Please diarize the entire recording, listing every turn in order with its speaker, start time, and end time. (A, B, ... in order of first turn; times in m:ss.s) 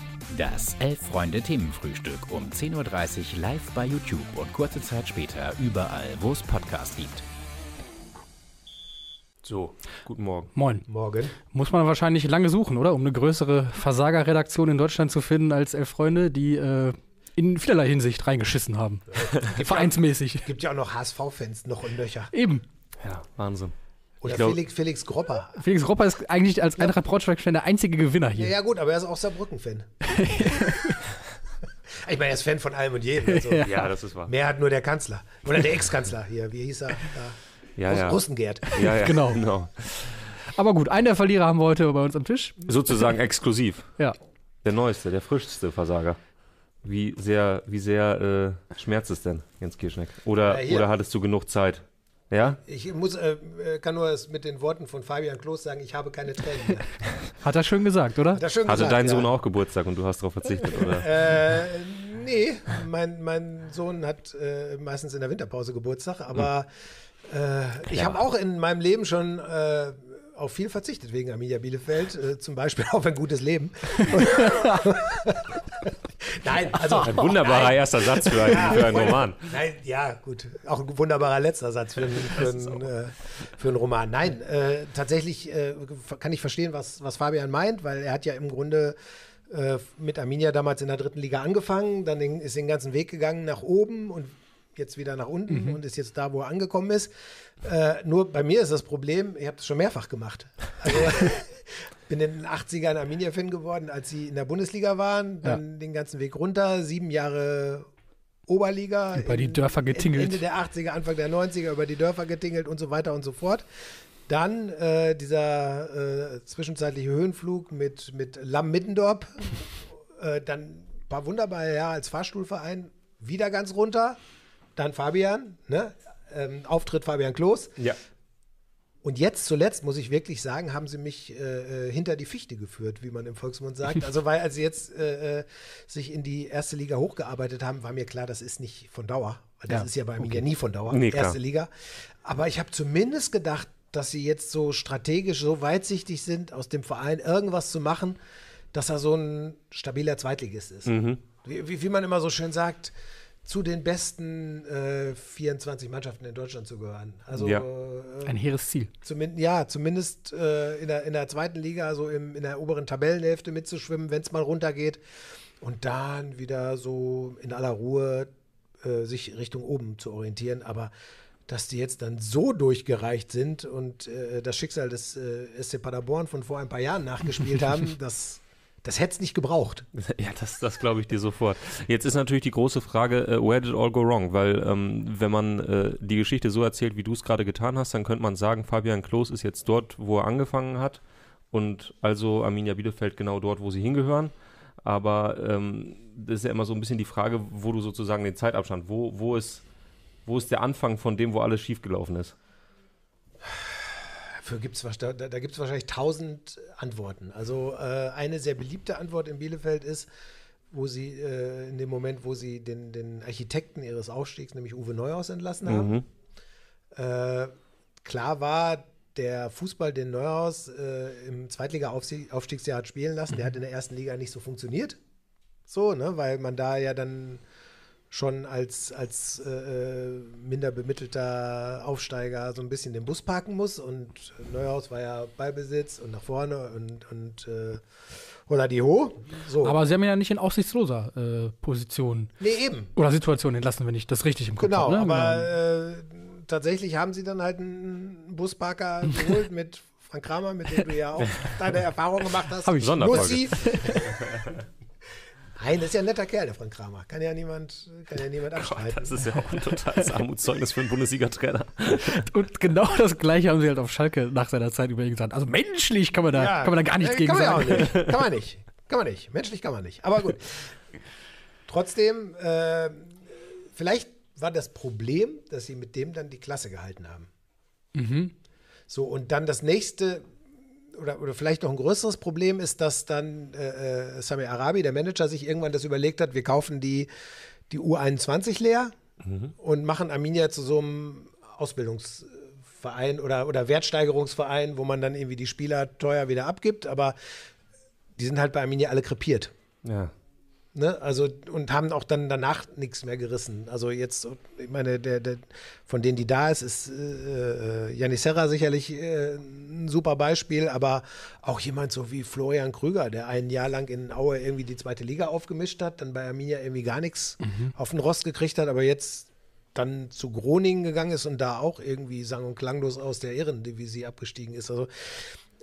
0:00.3-0:07.2 A
0:09.4-0:10.5 B
0:10.5-0:20.5 C
0:10.9-0:11.3 D
0:19.1-0:22.3 D
0:22.3-0:22.6 C
0:23.0-0:23.7 B
0:24.2-0:25.6 D
0:24.2-0:24.6 B
0:25.5-0:28.5 C
0:28.4-0:29.9 D
0:30.0-0:31.0 C
0:31.9-0:38.8 D
0:33.2-0:33.9 C
0:33.6-0:34.3 B
0:37.8-0:40.2 B
0:38.7-0:39.5 C
0:40.5-0:42.6 C
0:42.6-0:43.9 B
0:44.6-0:46.2 B
0:46.8-0:52.6 B
0:50.4-0:50.9 D
0:52.5-0:56.9 D
0:57.4-0:58.4 C
0:58.3-0:59.3 D
0:58.6-1:01.1 B
1:00.8-1:06.7 D
1:07.2-1:29.0 D
1:07.9-1:08.2 B
1:16.9-1:19.4 B
1:29.5-1:37.1 D
1:35.5-1:35.8 C
1:37.6-1:47.9 D
1:48.5-1:53.6 D
1:49.1-1:50.4 C
1:54.3-2:04.2 D
2:04.8-2:07.7 D
2:09.0-2:21.7 D
2:19.7-2:20.4 C
2:20.9-2:21.4 B
2:22.2-2:28.2 D
2:28.7-2:32.9 D
2:30.8-2:31.2 B
2:33.4-2:38.4 D
2:37.4-2:37.6 B
2:38.2-2:38.9 C
2:39.0-2:45.0 D
2:45.6-2:48.3 D
2:48.8-2:50.9 D
2:51.5-2:59.9 D
2:59.9-3:19.6 B
3:20.2-3:22.3 B
3:23.4-3:30.1 D
3:30.7-3:35.9 D
3:35.6-3:36.0 B
3:36.9-3:45.0 D
3:45.7-3:47.4 D
3:48.1-3:57.8 D
3:58.4-3:59.8 D
3:59.6-4:02.3 C
4:02.4-4:02.9 D
4:03.0-4:05.5 C
4:04.6-4:14.1 D
4:12.6-4:14.0 C
4:12.8-4:14.5 B
4:15.6-4:19.2 D
4:18.5-4:22.2 B
4:22.1-4:28.0 C
4:26.3-4:30.7 D
4:31.7-4:33.2 D
4:33.7-4:37.3 D
4:37.9-4:38.3 C
4:38.9-4:40.3 D
4:40.9-4:47.1 D
4:47.7-4:48.9 D
4:49.2-4:49.5 B
4:49.6-4:57.2 D
4:58.2-4:59.5 D
4:59.8-5:00.1 B
5:00.7-5:25.4 D
5:17.4-5:17.7 C